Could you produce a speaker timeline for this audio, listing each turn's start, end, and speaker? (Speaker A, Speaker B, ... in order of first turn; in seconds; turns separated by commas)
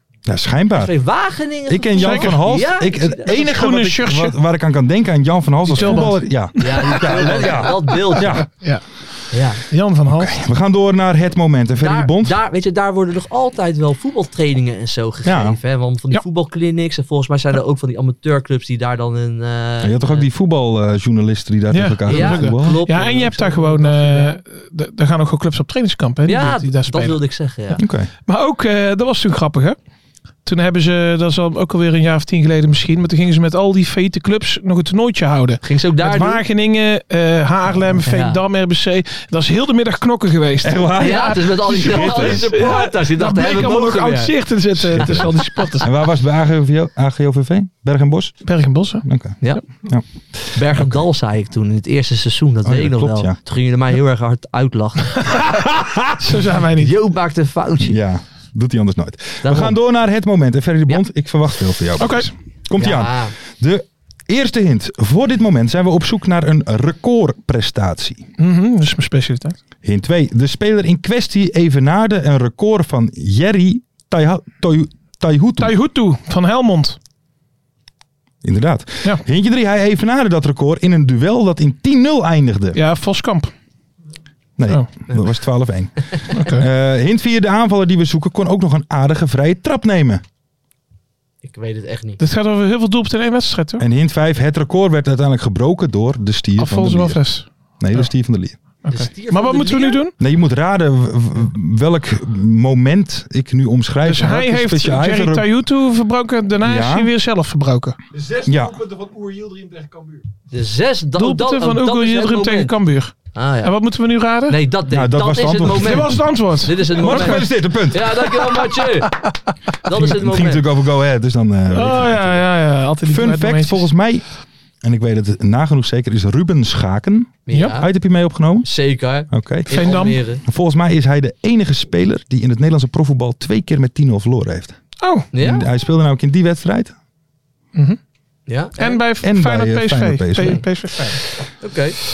Speaker A: 0.3-0.9, Speaker B: 0.8-3.4, Speaker A: 1.7-8.5, Speaker C: 2.0-2.4, Speaker C: 3.3-4.3, Speaker C: 5.7-8.8, Speaker B: 6.6-8.4, Speaker B: 9.3-9.6, Speaker C: 9.7-10.3, Speaker A: 10.1-12.4, Speaker B: 11.8-20.3, Speaker A: 15.2-15.6, Speaker A: 19.8-22.8, Speaker C: 21.7-27.2, Speaker B: 22.1-24.4, Speaker B: 26.3-27.8, Speaker A: 27.8-28.1, Speaker C: 28.3-29.8, Speaker C: 30.4-45.9, Speaker B: 35.6-36.4, Speaker B: 38.0-38.4, Speaker A: 40.6-42.7, Speaker B: 41.0-44.3, Speaker A: 44.9-48.4, Speaker C: 48.5-49.0, Speaker A: 49.0-51.0, Speaker B: 50.5-55.5, Speaker A: 52.7-53.4, Speaker C: 55.3-55.6, Speaker C: 56.1-56.9, Speaker B: 56.8-58.0, Speaker A: 57.8-68.3, Speaker B: 59.4-59.8, Speaker C: 62.0-62.3, Speaker B: 62.8-63.4, Speaker C: 68.4-69.6, Speaker A: 69.8-75.8, Speaker C: 75.6-77.0, Speaker A: 78.4-82.8, Speaker C: 82.7-83.5, Speaker A: 84.6-90.2, Speaker C: 86.3-86.7, Speaker B: 91.4-92.2, Speaker C: 92.2-93.8, Speaker A: 93.8-97.2, Speaker C: 96.6-97.5, Speaker A: 97.8-98.6, Speaker C: 98.8-100.2, Speaker B: 98.9-100.0, Speaker A: 100.2-105.5, Speaker C: 104.0-108.0, Speaker A: 106.6-107.1, Speaker A: 108.2-109.8, Speaker B: 110.5-112.7, Speaker C: 111.2-114.6, Speaker B: 113.3-113.7, Speaker B: 114.5-119.2, Speaker A: 114.9-116.2, Speaker C: 115.7-117.4, Speaker A: 117.0-118.3, Speaker C: 118.4-119.3, Speaker B: 119.8-120.7, Speaker A: 119.9-122.5, Speaker C: 121.7-123.9, Speaker A: 123.0-124.2, Speaker A: 124.8-128.7, Speaker B: 127.5-127.9, Speaker B: 128.6-130.4, Speaker A: 129.3-129.7, Speaker C: 129.7-130.2, Speaker A: 130.4-134.8, Speaker C: 135.0-135.3, Speaker B: 135.3-135.7, Speaker A: 135.4-136.9, Speaker B: 138.5-139.0, Speaker C: 138.8-141.2, Speaker A: 139.2-140.7, Speaker B: 141.6-142.0